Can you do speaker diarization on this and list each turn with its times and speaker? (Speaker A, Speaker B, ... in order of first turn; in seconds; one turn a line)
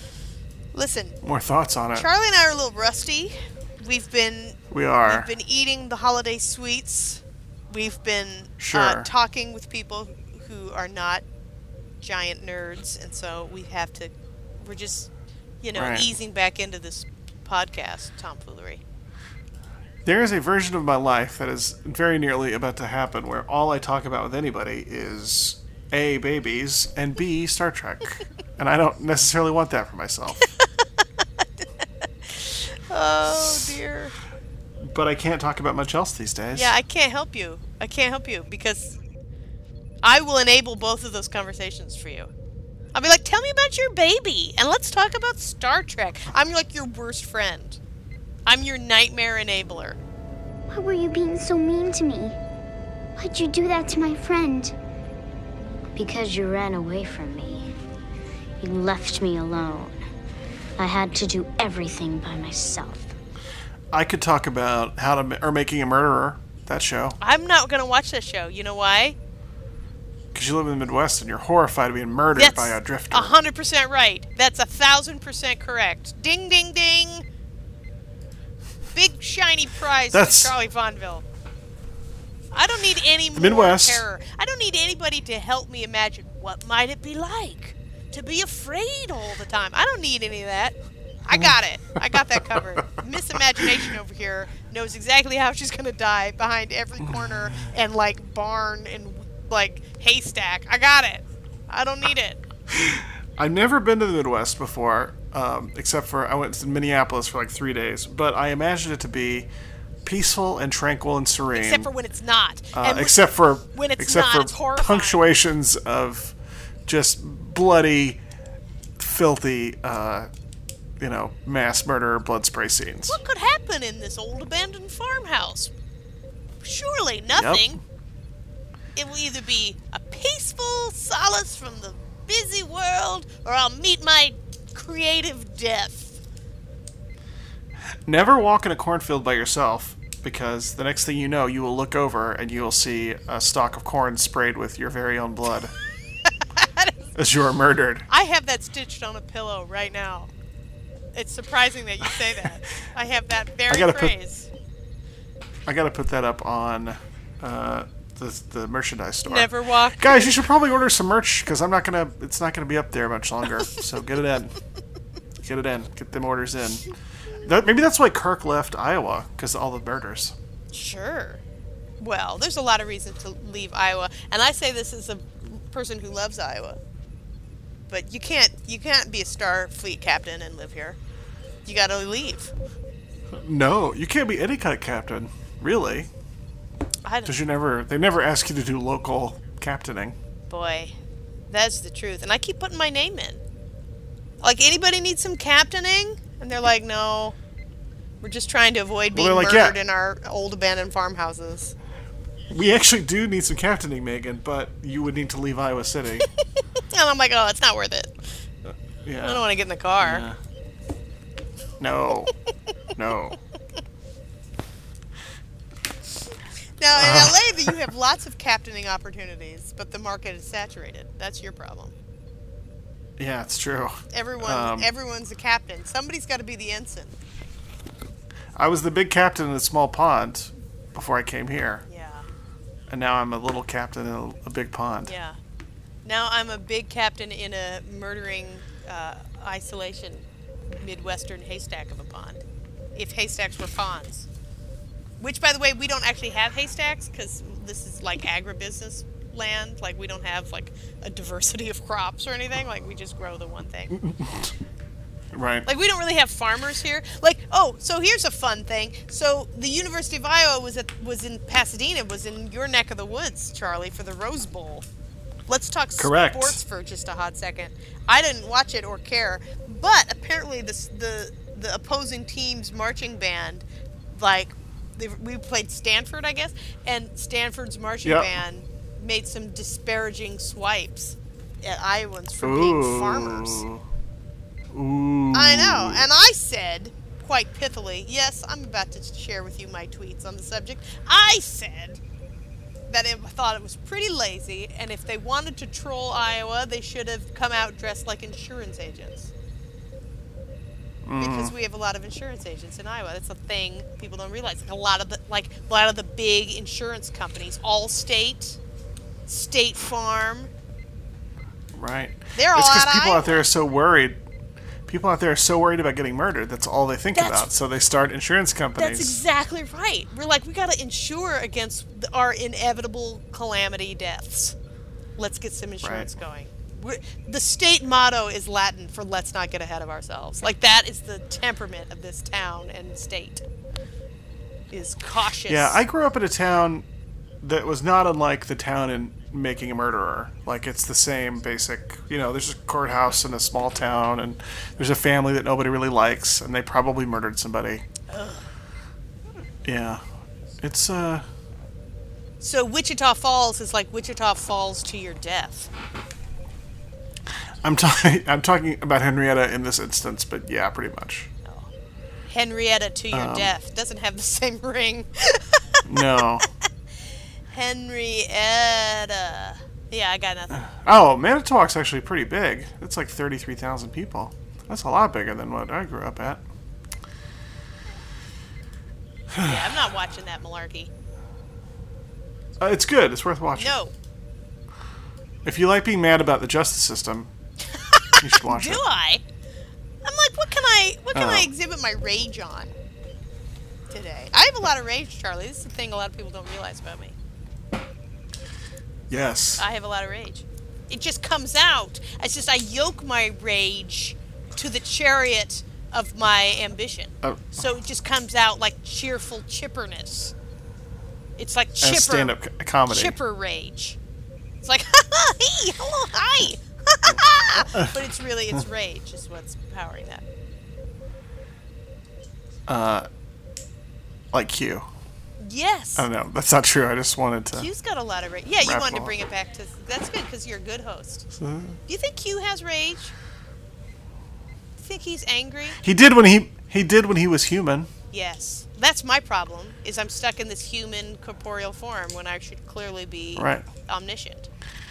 Speaker A: 0.7-1.2
Speaker B: 1.2-2.1
Speaker A: 1.9-11.2
Speaker B: 4.7-5.3
Speaker B: 8.6-9.1
Speaker A: 12.0-15.1
Speaker A: 15.6-18.8
Speaker B: 15.7-16.1
Speaker B: 20.1-30.5
Speaker A: 32.2-34.1
Speaker B: 34.8-36.7
Speaker A: 36.5-39.0
Speaker A: 40.0-42.3
Speaker A: 42.9-47.8
Speaker A: 48.5-50.0
Speaker C: 50.7-52.4
Speaker C: 53.2-54.7
Speaker C: 56.0-57.7
Speaker C: 58.6-60.0
Speaker C: 60.8-63.1
Speaker B: 63.9-67.2
Speaker A: 67.2-69.2
Speaker B: 70.3-73.4
Speaker A: 72.3-77.2
Speaker A: 78.9-81.2
Speaker B: 80.1-80.5
Speaker A: 82.5-90.8
Speaker B: 83.3-84.0
Speaker A: 91.3-102.4
Speaker B: 97.0-97.7
Speaker B: 102.7-109.5
Speaker B: 110.0-111.9
Speaker A: 111.5-115.2
Speaker B: 112.7-118.2
Speaker B: 119.0-120.3
Speaker B: 121.0-123.2
Speaker A: 123.1-125.7
Speaker A: 126.6-127.8
Speaker B: 127.3-127.8
Speaker A: 129.0-136.2
Speaker B: 138.1-145.7
Speaker A: 146.6-146.9
Speaker B: 147.2-148.1
Speaker A: 148.1-150.3
Speaker A: 151.1-154.5
Speaker B: 153.7-154.2
Speaker B: 155.7-164.6
Speaker A: 159.3-160.4
Speaker B: 165.4-166.9
Speaker B: 167.4-170.3
Speaker A: 170.7-171.4
Speaker A: 172.0-176.8
Speaker A: 177.9-181.0
Speaker A: 181.7-182.5
Speaker B: 183.3-186.1
Speaker A: 187.1-187.3
Speaker B: 187.2-190.2
Speaker A: 190.5-190.9
Speaker A: 191.5-193.4
Speaker A: 194.4-197.4
Speaker A: 198.2-201.7
Speaker B: 199.1-199.8
Speaker B: 202.5-206.3
Speaker A: 206.9-208.2
Speaker B: 208.7-209.4
Speaker A: 209.2-210.2
Speaker B: 210.0-210.4
Speaker B: 211.8-212.3
Speaker B: 213.0-213.4
Speaker A: 216.8-221.9
Speaker B: 216.9-217.8
Speaker B: 223.2-224.9
Speaker A: 224.1-227.2
Speaker B: 228.6-231.8
Speaker A: 231.9-232.3
Speaker B: 232.9-235.1
Speaker A: 235.1-235.4
Speaker A: 236.1-242.4
Speaker A: 242.9-244.3
Speaker A: 245.2-254.0
Speaker B: 253.9-254.5
Speaker B: 255.3-255.7
Speaker A: 255.7-264.9
Speaker A: 265.5-283.6
Speaker B: 266.0-266.6
Speaker B: 278.0-278.4
Speaker B: 282.4-283.8
Speaker B: 284.7-286.1
Speaker A: 285.3-292.0
Speaker A: 292.9-299.3
Speaker B: 301.1-301.5
Speaker A: 301.2-308.6
Speaker A: 309.3-310.5
Speaker B: 311.7-314.2
Speaker A: 312.4-313.4
Speaker B: 314.9-319.2
Speaker A: 317.1-317.5
Speaker A: 318.8-324.6
Speaker A: 325.2-333.4
Speaker B: 325.8-326.1
Speaker A: 334.7-335.8
Speaker B: 335.5-336.9
Speaker B: 337.4-347.9
Speaker A: 348.1-348.5
Speaker B: 349.6-350.0
Speaker B: 350.6-351.2
Speaker A: 352.4-355.7
Speaker B: 357.6-361.3
Speaker A: 361.4-361.7
Speaker A: 362.3-365.6
Speaker B: 363.1-363.5
Speaker B: 365.9-366.5
Speaker A: 367.5-370.7
Speaker B: 370.5-376.4
Speaker B: 379.3-379.6
Speaker A: 379.4-380.9
Speaker B: 382.6-383.8
Speaker A: 383.5-383.9
Speaker B: 385.4-387.3
Speaker A: 387.8-389.2
Speaker B: 388.2-388.8
Speaker A: 390.0-392.8
Speaker B: 391.1-391.5
Speaker A: 393.9-397.1
Speaker B: 399.1-399.6
Speaker A: 399.6-410.3
Speaker B: 407.2-407.6
Speaker A: 411.4-414.0
Speaker B: 411.8-413.2
Speaker A: 414.6-420.2
Speaker B: 417.1-418.0
Speaker B: 422.7-423.1
Speaker B: 424.3-424.9
Speaker A: 425.4-426.1
Speaker B: 426.0-427.7
Speaker A: 427.5-431.3
Speaker B: 428.6-429.1
Speaker B: 431.3-431.8
Speaker A: 431.9-433.1
Speaker A: 434.8-435.8
Speaker B: 435.8-437.9
Speaker A: 438.1-444.5
Speaker B: 443.4-443.7